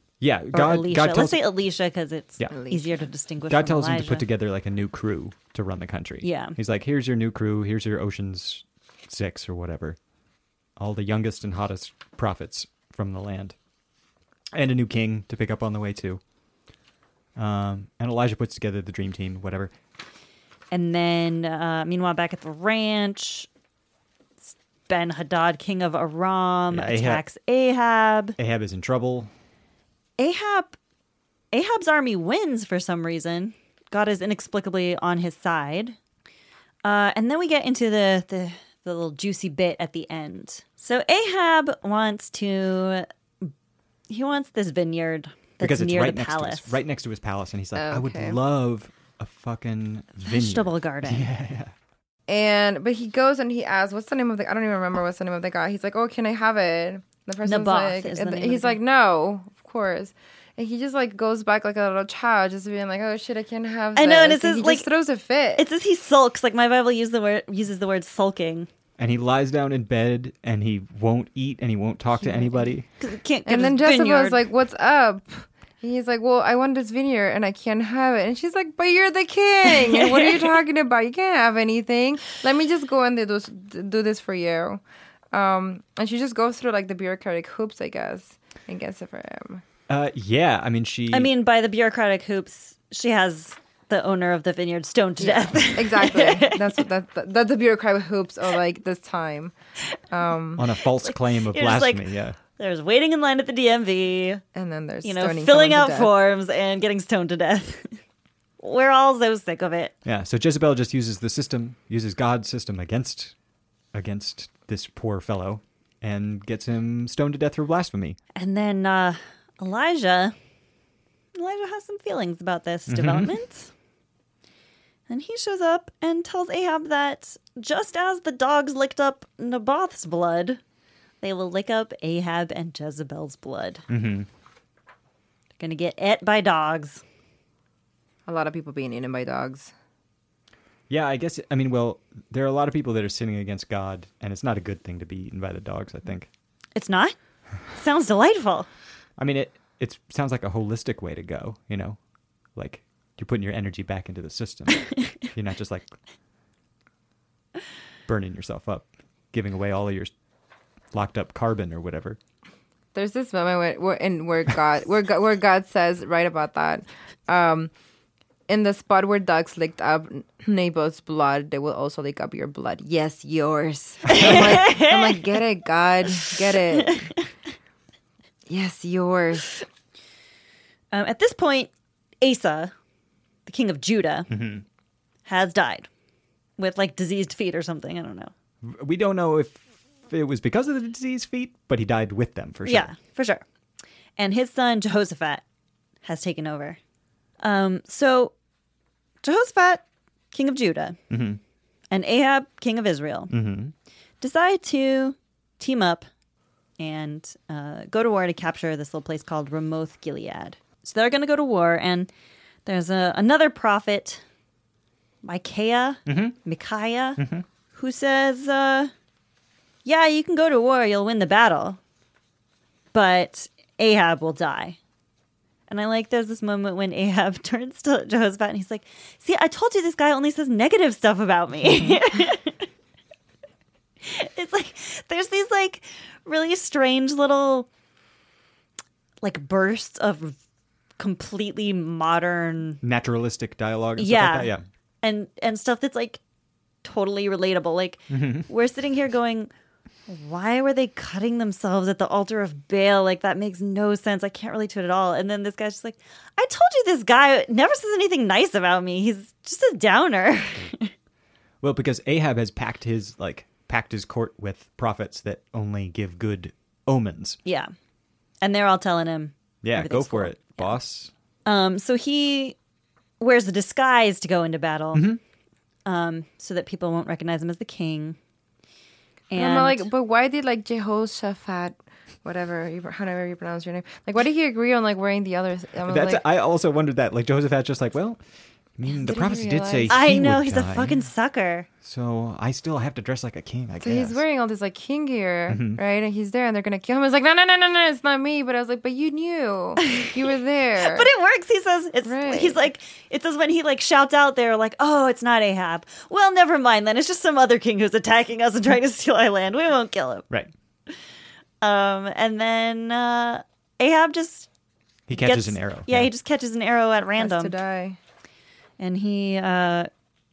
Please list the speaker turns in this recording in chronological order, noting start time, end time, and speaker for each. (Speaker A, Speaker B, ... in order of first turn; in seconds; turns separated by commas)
Speaker A: 0.2-1.5, Speaker B: 0.5-4.3, Speaker C: 2.5-3.0, Speaker A: 3.5-10.0, Speaker B: 6.2-6.6, Speaker A: 10.8-13.6, Speaker A: 14.5-16.2, Speaker A: 17.4-19.7, Speaker B: 20.7-23.5, Speaker B: 24.5-28.4, Speaker A: 26.7-27.2, Speaker A: 28.4-29.3, Speaker B: 30.2-30.8, Speaker B: 31.5-36.0, Speaker B: 36.9-43.5, Speaker B: 44.1-46.8, Speaker A: 45.6-51.7, Speaker C: 47.8-48.4, Speaker B: 50.2-51.3, Speaker C: 52.3-65.7, Speaker B: 57.5-58.8, Speaker B: 64.0-64.9, Speaker B: 65.6-68.7, Speaker A: 69.0-72.9, Speaker C: 72.2-72.7, Speaker B: 73.0-74.4, Speaker C: 73.5-84.8, Speaker B: 79.7-80.5, Speaker C: 85.3-89.6, Speaker A: 89.9-91.3, Speaker B: 91.1-96.8, Speaker C: 95.2-99.5, Speaker C: 100.1-100.7, Speaker A: 100.6-102.4, Speaker B: 101.0-104.4, Speaker C: 104.5-106.1, Speaker B: 105.0-108.0, Speaker B: 108.6-109.9, Speaker A: 110.0-113.3, Speaker A: 113.9-118.2, Speaker B: 118.3-120.3, Speaker B: 121.3-123.7, Speaker A: 122.9-123.3, Speaker B: 125.1-130.6, Speaker B: 131.2-133.8, Speaker A: 133.9-134.3, Speaker B: 135.6-137.0, Speaker C: 138.3-139.7, Speaker A: 140.9-146.3, Speaker B: 146.8-147.2, Speaker B: 147.7-148.7, Speaker A: 149.2-152.0, Speaker A: 152.6-155.9, Speaker A: 158.1-160.1, Speaker A: 160.9-162.2, Speaker C: 162.9-167.7, Speaker C: 168.5-177.1, Speaker A: 174.1-174.6, Speaker B: 174.1-175.4, Speaker B: 176.2-177.3, Speaker C: 178.5-179.6, Speaker B: 180.9-181.7, Speaker B: 182.2-182.7, Speaker B: 183.5-184.3, Speaker A: 184.3-184.6, Speaker B: 185.3-185.9, Speaker B: 186.6-188.3, Speaker A: 188.6-192.9, Speaker B: 192.7-193.4, Speaker B: 194.2-195.4, Speaker B: 196.0-196.8, Speaker B: 197.4-198.3, Speaker B: 199.2-201.0, Speaker A: 201.1-201.4, Speaker B: 201.9-203.3, Speaker A: 203.3-203.7, Speaker B: 204.2-206.1, Speaker B: 206.8-212.1, Speaker B: 212.7-214.2, Speaker B: 215.2-217.2, Speaker A: 216.1-216.4, Speaker A: 217.2-217.4, Speaker B: 217.7-218.9, Speaker B: 219.8-221.8, Speaker B: 222.9-224.8, Speaker B: 225.7-232.7, Speaker B: 234.0-237.7, Speaker B: 239.2-240.4, Speaker B: 241.0-242.8, Speaker A: 242.8-244.7, Speaker B: 244.0-246.2, Speaker B: 246.8-249.5, Speaker A: 248.1-248.5, Speaker B: 250.1-260.9, Speaker A: 261.6-267.4, Speaker B: 267.4-267.7, Speaker B: 268.4-270.7, Speaker A: 269.6-271.1, Speaker B: 271.5-272.6, Speaker B: 273.2-275.1, Speaker A: 274.9-275.2, Speaker B: 275.9-278.2, Speaker B: 279.3-279.9, Speaker C: 279.4-286.2, Speaker A: 285.9-288.2, Speaker A: 288.8-291.0, Speaker C: 288.9-290.0, Speaker B: 289.9-291.7, Speaker A: 291.8-294.2, Speaker C: 293.8-301.1, Speaker A: 295.5-295.8, Speaker B: 299.8-300.3, Speaker B: 300.8-310.3, Speaker C: 302.1-302.6, Speaker B: 311.6-314.5, Speaker A: 315.1-316.1, Speaker B: 315.1-317.5, Speaker C: 317.2-318.0, Speaker B: 318.8-319.9